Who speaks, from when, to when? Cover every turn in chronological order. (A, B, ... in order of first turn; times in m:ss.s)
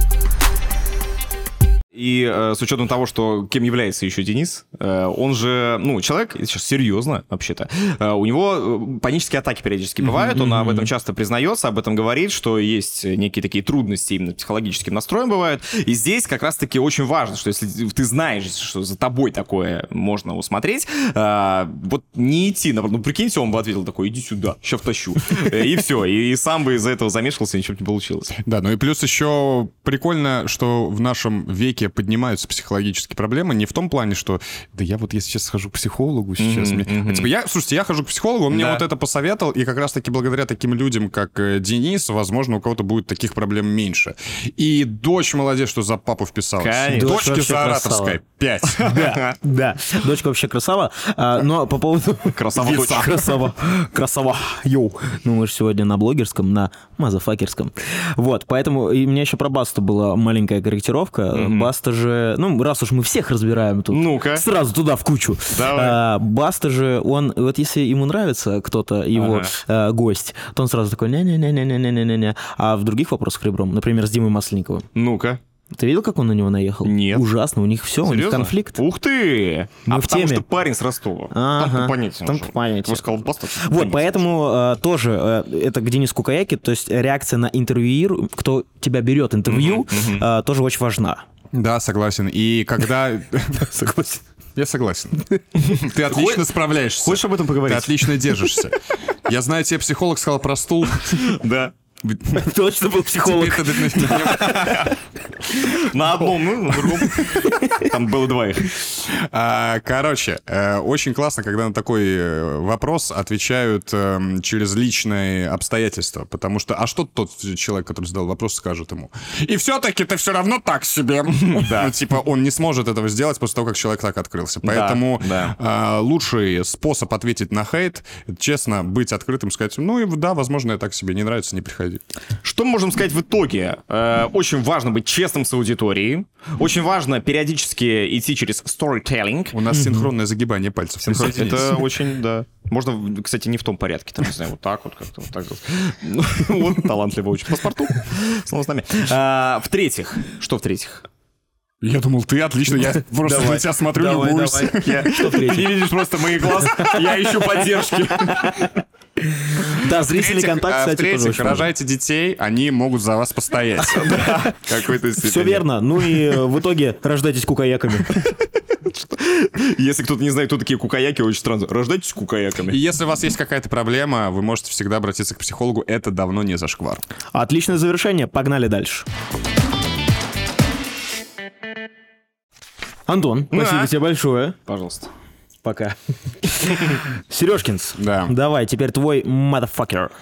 0:02.0-0:28.4 A
0:10.3-0:10.9 B
0:28.4-0:48.9 C
0:36.4-0:37.3 A
0:38.5-0:38.8 A
0:46.6-0:47.2 A
0:47.0-0:48.2 B
0:48.8-1:14.9 B
0:48.9-0:49.3 A
0:52.3-0:53.3 A
1:01.3-1:01.7 A
1:03.9-1:04.4 A
1:05.5-1:06.0 A
1:09.1-1:09.5 A
1:15.0-1:15.4 A
1:15.7-1:18.8 B
1:16.8-1:17.2 A
1:18.0-1:24.2 A
1:19.9-1:20.4 B
1:21.3-1:23.0 B
1:23.6-1:31.2 B
1:29.5-1:30.2 A
1:31.5-1:33.7 C
1:33.6-1:34.2 B
1:34.6-1:41.3 C
1:35.6-1:38.1 A
1:41.2-1:41.7 A
1:42.3-1:44.4 B
1:43.2-1:44.8 C
1:44.2-1:44.9 A
1:45.6-1:48.7 A
1:48.9-2:12.0 C
2:01.5-2:01.9 A
2:04.6-2:05.6 A
2:12.4-2:19.6 A
2:19.5-2:21.8 C
2:19.8-2:20.0 B
2:21.0-2:31.0 A
2:31.8-2:35.0 C
2:33.2-2:35.7 B
2:34.7-2:38.7 A
2:38.4-2:38.7 B
2:39.7-2:41.7 B
2:40.1-2:44.3 C
2:43.9-2:46.2 A
2:45.2-2:48.2 B
2:48.8-2:52.8 A
2:52.7-2:57.0 C
2:57.3-2:59.1 B
3:03.1-3:04.6 B
3:03.5-3:03.9 A
3:04.7-3:05.1 A
3:05.6-3:10.1 B
3:08.0-3:08.3 C